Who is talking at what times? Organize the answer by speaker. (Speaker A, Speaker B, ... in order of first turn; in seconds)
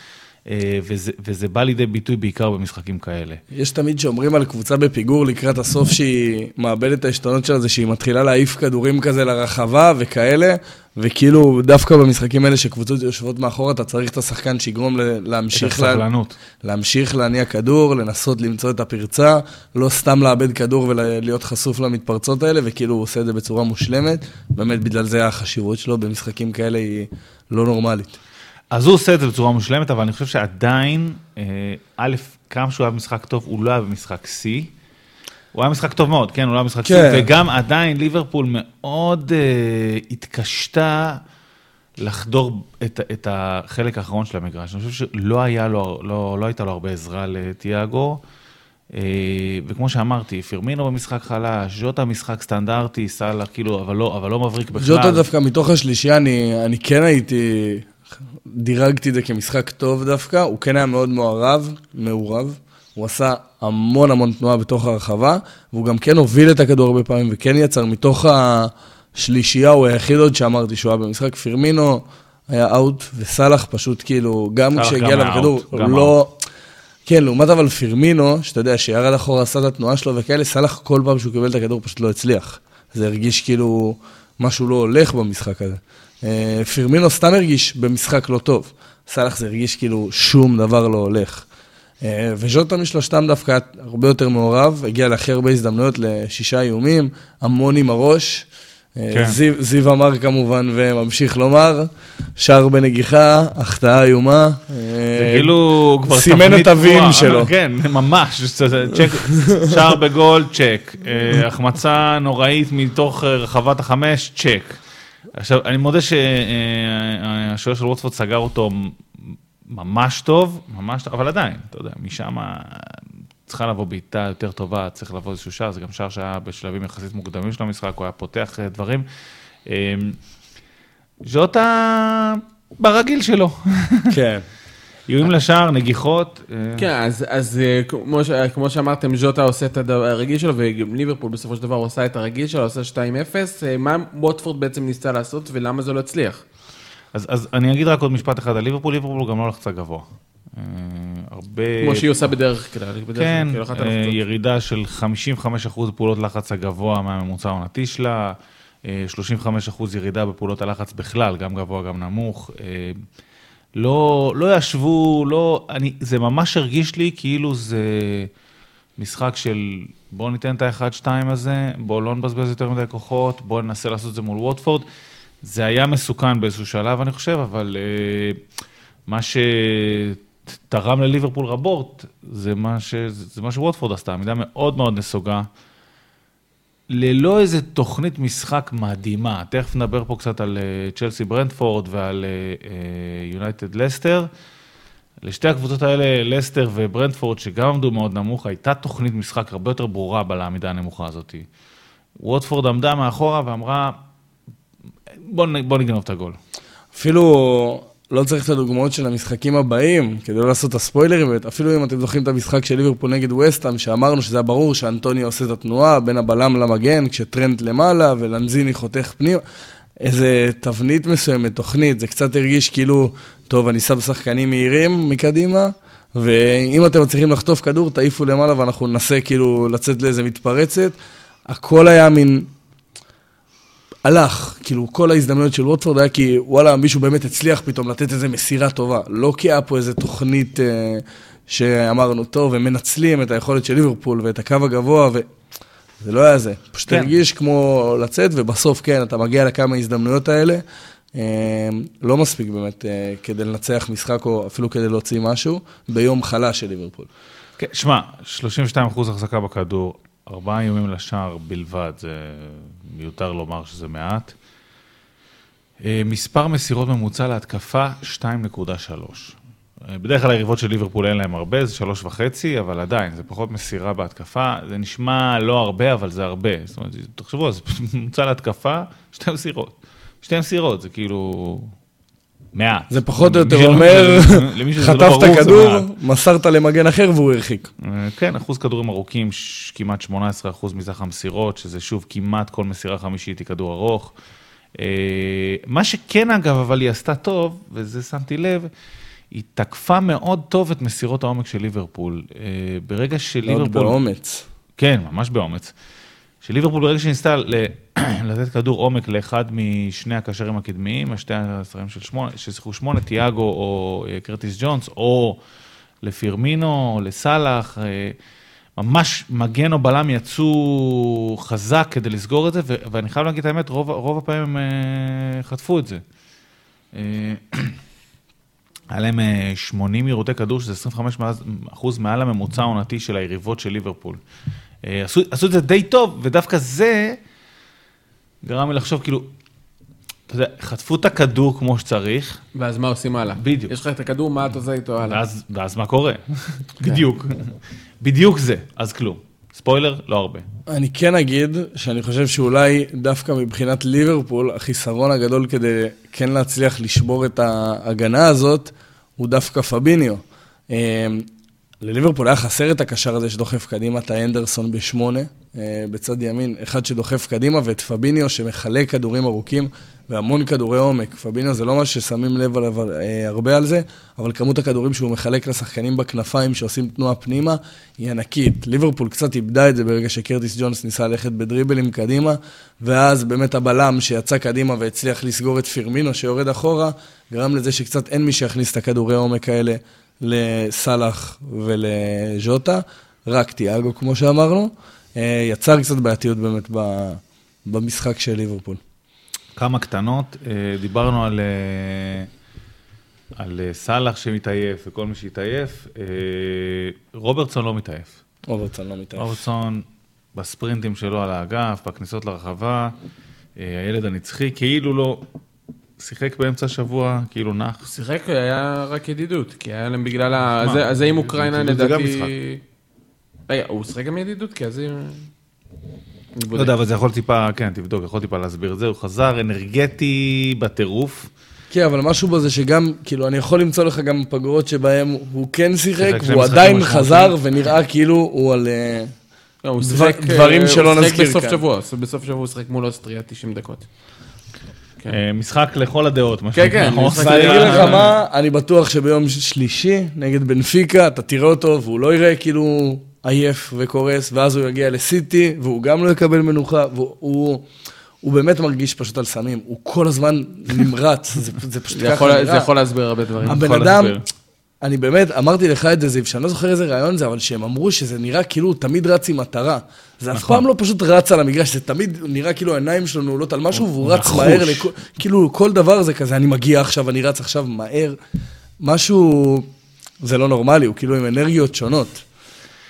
Speaker A: 0.5-3.4, 15.5-16.4, 28.7-34.7, 35.5-41.2, 42.0-48.2, 48.9-55.2, 74.7-76.2, 99.1-99.4, 105.1-114.8, 115.3-129.1, 129.7-130.2, 131.2-134.2, 135.1-136.9, 147.1-152.3, 153.1-163.0, 163.8-168.3, 169.0-174.8, 175.4-178.4, 179.1-185.5, 186.9-194.3, 195.2-201.4, 202.2-203.9, 205.2-206.4, 257.6-264.3, 265.8-269.4, 269.9-281.7, 282.5-285.9, 287.8-294.1, 294.8-298.7, 299.3-304.0, 304.8-305.7, 306.4-315.4, 316.0-318.2, 318.8-326.0, 326.9-327.8, 328.9-334.2, 334.8-337.2, 338.4-339.3, 340.3-342.4, 343.4-343.7, 345.0-350.4, 399.6-402.3, 403.4-408.1, 409.1-412.9, 413.6-415.2, 416.0-417.9, 420.6-422.3, 426.5-431.3, 436.0-437.4, 445.1-448.1, 463.4-464.2, 470.3-470.6, 474.0-474.9
Speaker B: 3.5-16.0, 16.6-28.2, 36.8-37.3, 54.8-57.9, 58.5-76.4, 77.0-91.4, 92.0-107.5, 134.1-134.4, 206.9-219.4, 220.0-232.5, 234.0-245.3, 246.0-250.6, 251.1-257.1, 282.9-287.7, 303.4-304.4, 350.7-361.3, 361.8-398.8, 408.5-409.4, 431.7-439.1, 439.8-441.6, 447.2-457.6, 458.2-462.7, 463.4-464.2, 464.8-478.2, 478.8-479.7, 480.2-482.2
Speaker C: 136.8-146.4, 151.8-154.2, 342.5-345.2, 417.8-422.6, 423.5-425.3, 426.4-426.7, 439.6-443.9, 446.5-448.1, 461.9-463.6